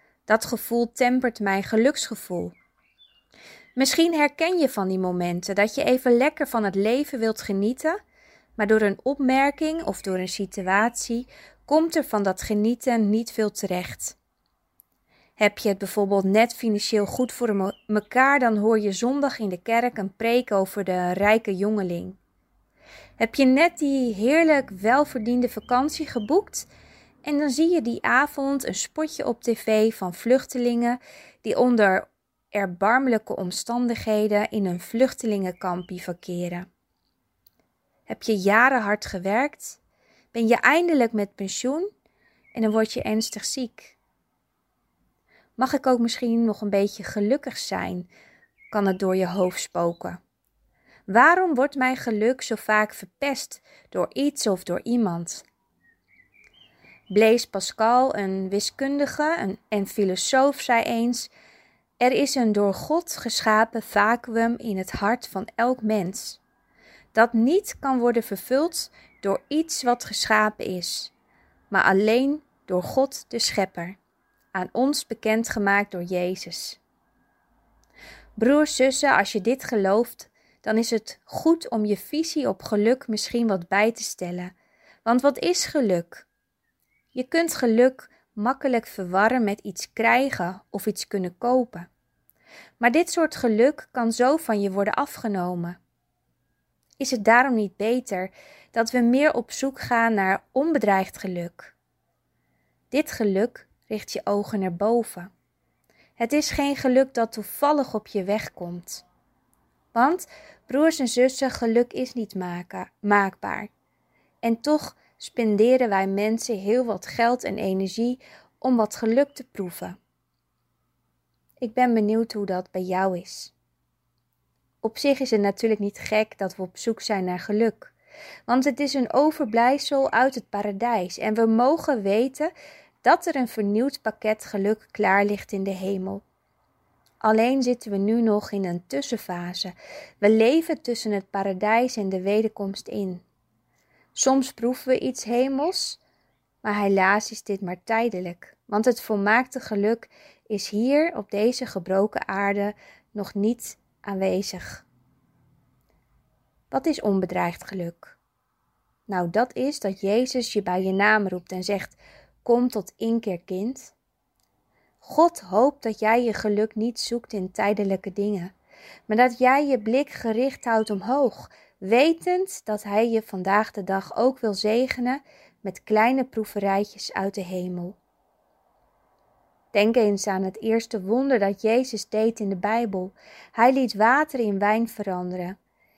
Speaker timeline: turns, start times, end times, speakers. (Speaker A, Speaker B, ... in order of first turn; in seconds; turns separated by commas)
Speaker A: 0.3-2.5, Speaker A: 3.8-8.0, Speaker A: 8.6-14.2, Speaker A: 15.4-22.2, Speaker A: 23.2-26.7, Speaker A: 27.2-36.6, Speaker A: 38.1-39.8, Speaker A: 40.3-41.9, Speaker A: 42.5-44.0, Speaker A: 45.6-48.1, Speaker A: 48.7-50.2, Speaker A: 51.1-55.5, Speaker A: 57.1-61.3, Speaker A: 62.0-66.4, Speaker A: 67.1-71.1, Speaker A: 71.7-74.0, Speaker A: 74.5-76.8, Speaker A: 78.4-84.5, Speaker A: 85.0-86.2, Speaker A: 87.1-91.9, Speaker A: 92.8-95.8, Speaker A: 97.0-101.7, Speaker A: 102.9-105.3, Speaker A: 106.2-109.0, Speaker A: 109.9-113.7, Speaker A: 114.4-120.0, Speaker A: 121.6-123.5, Speaker A: 124.8-127.9, Speaker A: 128.5-132.5, Speaker A: 133.0-136.2, Speaker A: 137.2-143.2, Speaker A: 144.1-146.0, Speaker A: 146.6-154.8, Speaker A: 156.7-158.2, Speaker A: 159.1-163.9, Speaker A: 165.0-168.5, Speaker A: 169.1-178.0, Speaker A: 179.7-185.6